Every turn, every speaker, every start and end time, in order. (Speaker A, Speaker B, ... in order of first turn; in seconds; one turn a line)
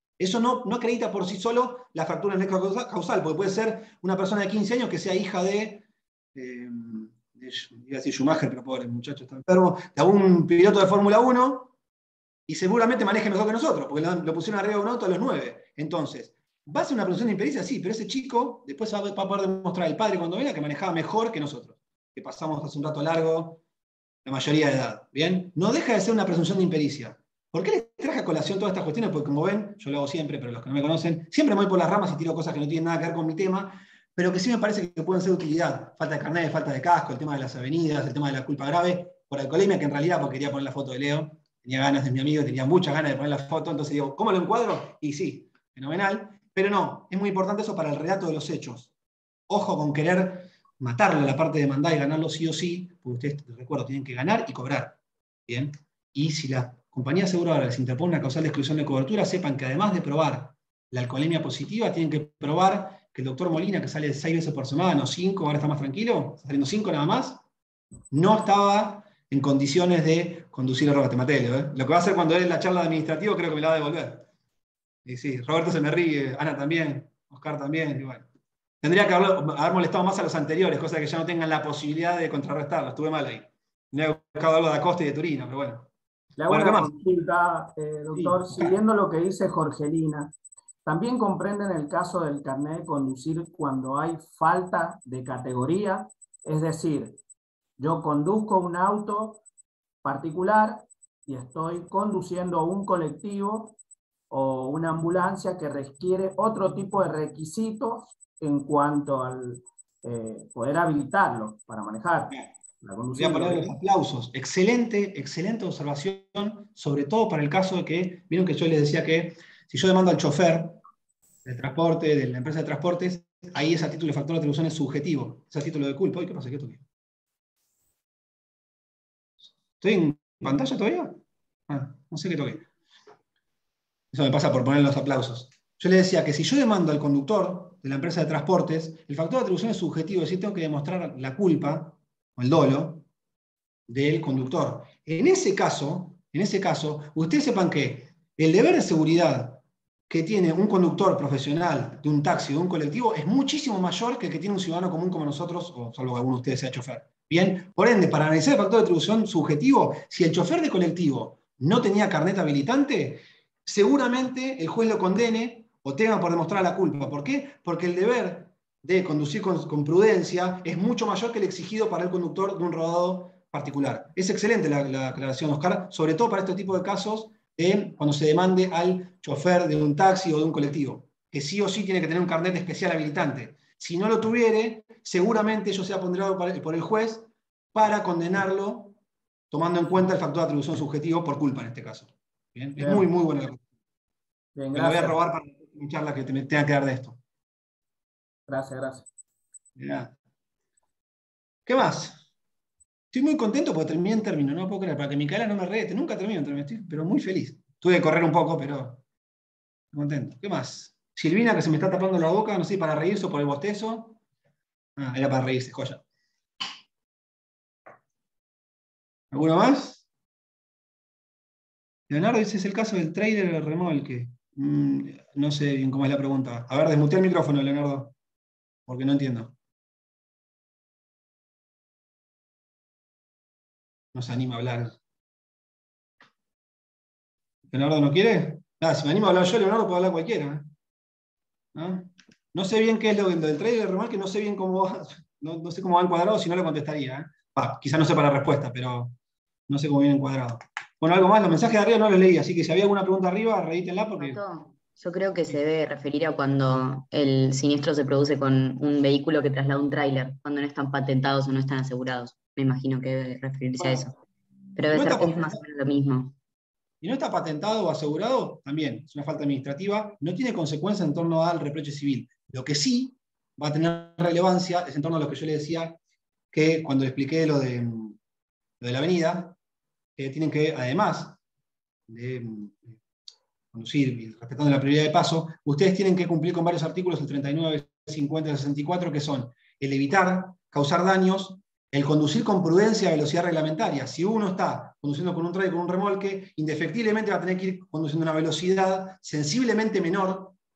Speaker A: 0.2-11.7
Speaker A: 12.5-23.6
Speaker A: 24.2-48.9
Speaker A: 49.5-67.4
Speaker A: 68.1-74.3
Speaker A: 75.0-78.2
Speaker A: 78.8-85.9
Speaker B: 86.4-90.3
Speaker A: 86.5-86.9
Speaker A: 88.1-88.8
Speaker B: 90.8-97.2
Speaker B: 97.8-99.4
Speaker B: 100.0-103.8
Speaker B: 104.3-113.8
Speaker A: 113.1-120.8
Speaker A: 121.5-126.8
Speaker A: 129.8-132.7
Speaker A: 134.1-143.1
Speaker A: 143.9-189.0
Speaker A: 189.5-193.6
Speaker B: 192.8-193.1
Speaker B: 194.6-195.2
Speaker A: 194.7-197.2
Speaker B: 198.5-199.1
Speaker A: 199.8-200.1
Speaker A: 201.7-202.2
Speaker A: 203.1-209.0
Speaker A: 209.9-214.2
Speaker A: 215.0-216.0
Speaker A: 219.3-220.0
Speaker A: 222.1-228.1
Speaker A: 228.9-229.6
Speaker A: 234.1-235.0
Speaker A: 237.7-240.7
Speaker A: 241.7-249.2
Speaker A: 249.7-254.4
Speaker C: 254.2-264.1
Speaker A: 263.8-264.1
Speaker C: 264.8-266.4
Speaker A: 264.9-265.6
Speaker A: 267.0-276.0
Speaker A: 276.5-278.2
Speaker A: 278.8-279.6
Speaker A: 280.2-281.4
Speaker A: 282.1-283.0
Speaker A: 283.7-300.6